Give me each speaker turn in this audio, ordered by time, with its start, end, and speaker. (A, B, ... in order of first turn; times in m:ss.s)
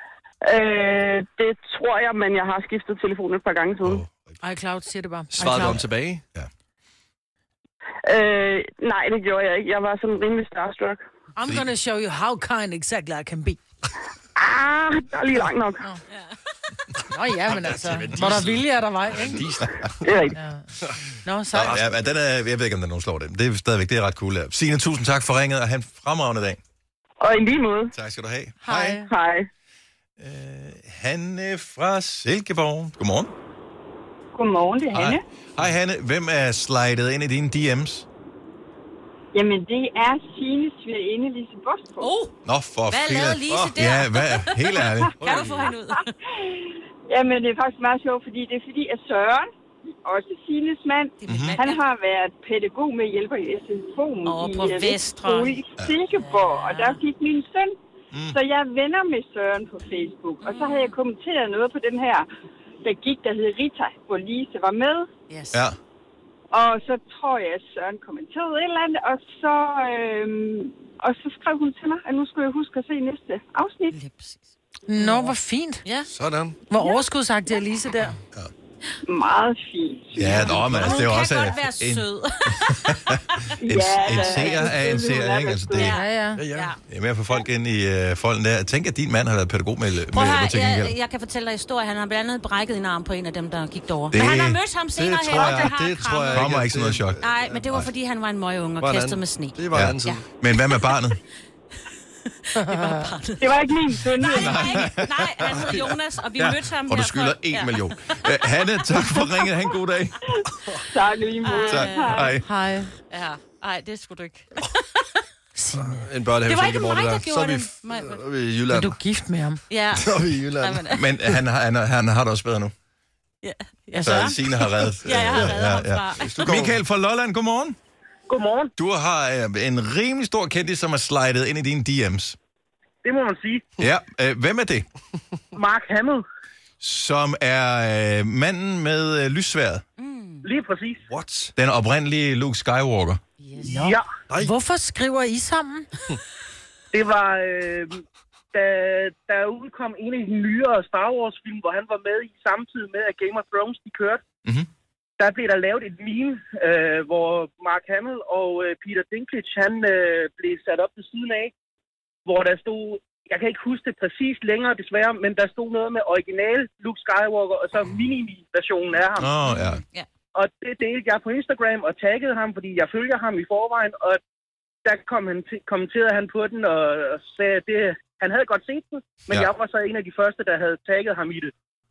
0:00.4-0:04.0 A
0:03.8-0:04.4 B
0:04.4-0:05.8 C
0:05.4-0:06.2 D
0:05.4-0:06.5 B
0:08.0-0:11.0 A
0:11.4-0:13.6 C
0:14.4-0:15.8 A
0:17.1-0:19.4 C
0:17.5-0:20.2 D
0:20.0-0:20.3 A
0:20.3-0:20.6 C
0:21.2-0:21.8 C
0:21.5-0:26.6 B
0:21.6-0:21.9 D
0:27.2-0:27.9 A
0:27.9-0:29.0 B
0:28.6-0:29.1 C
0:29.0-0:29.5 A
0:30.2-0:33.3 B
0:34.4-0:35.2 A
0:34.9-0:38.1 B
0:39.3-0:42.1 E
0:42.0-0:42.3 F
0:42.4-0:45.1 B
0:42.9-0:46.1 F
0:45.2-0:45.7 D
0:46.4-0:49.5 E
0:50.0-0:57.8 E
0:51.2-0:51.8 F
0:51.2-0:51.6 B
0:54.2-0:57.0 F
0:58.1-0:58.4 B
0:58.3-1:02.2 E
1:00.4-1:00.9 F
1:02.8-1:05.1 E
1:05.3-1:05.6 F
1:05.5-1:05.8 B
1:06.5-1:14.0 E
1:13.9-1:14.4 F
1:14.9-1:15.8 C
1:15.0-1:16.1 F
1:16.1-1:16.6 D
1:16.7-1:18.2 C
1:19.0-1:21.5 E
1:20.1-1:26.0 B
1:20.2-1:23.5 F
1:23.6-1:25.9 E
1:24.0-1:24.7 F
1:25.7-1:26.8 F
1:25.8-1:26.4 C
1:26.4-1:26.7 D
1:26.9-1:30.9 B
1:30.1-1:36.5 F
1:34.1-1:34.6 B
1:34.9-1:37.8 D
1:35.3-1:35.7 B
1:36.3-1:37.2 B
1:37.2-1:40.2 F
1:38.8-1:40.2 D
1:39.7-1:41.2 B
1:42.4-1:48.2 F
1:42.6-1:43.1 C
1:43.4-1:44.9 E
1:44.2-1:45.7 B
1:45.5-1:45.9 D
1:46.4-1:50.1 B
1:50.9-1:52.3 E
1:51.4-1:52.4 F
1:51.6-1:52.4 B
1:52.4-1:52.9 C
1:53.0-1:55.2 F
1:55.5-1:56.0 C
1:55.7-1:59.0 D
1:56.4-1:58.2 F
1:58.7-1:59.6 C
1:59.7-2:01.0 F
1:59.9-2:00.9 D
2:00.9-2:02.7 B
2:03.4-2:06.5 F
2:04.0-2:07.8 B
2:06.2-2:06.8 D
2:08.3-2:08.7 G
2:08.8-2:12.4 B
2:13.0-2:13.7 G
2:13.8-2:14.8 B
2:15.5-2:16.2 G
2:16.8-2:19.8 B
2:20.0-2:20.4 F
2:20.4-2:21.0 G
2:21.1-2:21.5 D
2:21.6-2:23.2 B
2:23.4-2:23.9 F
2:23.6-2:25.9 C
2:23.7-2:24.0 G
2:26.9-2:28.0 G
2:28.5-2:34.2 G
2:35.2-2:41.5 G
2:42.2-2:49.3 G
2:49.2-2:49.8 B
2:49.4-2:50.1 F
2:50.3-2:54.2 G
2:54.8-3:01.5 G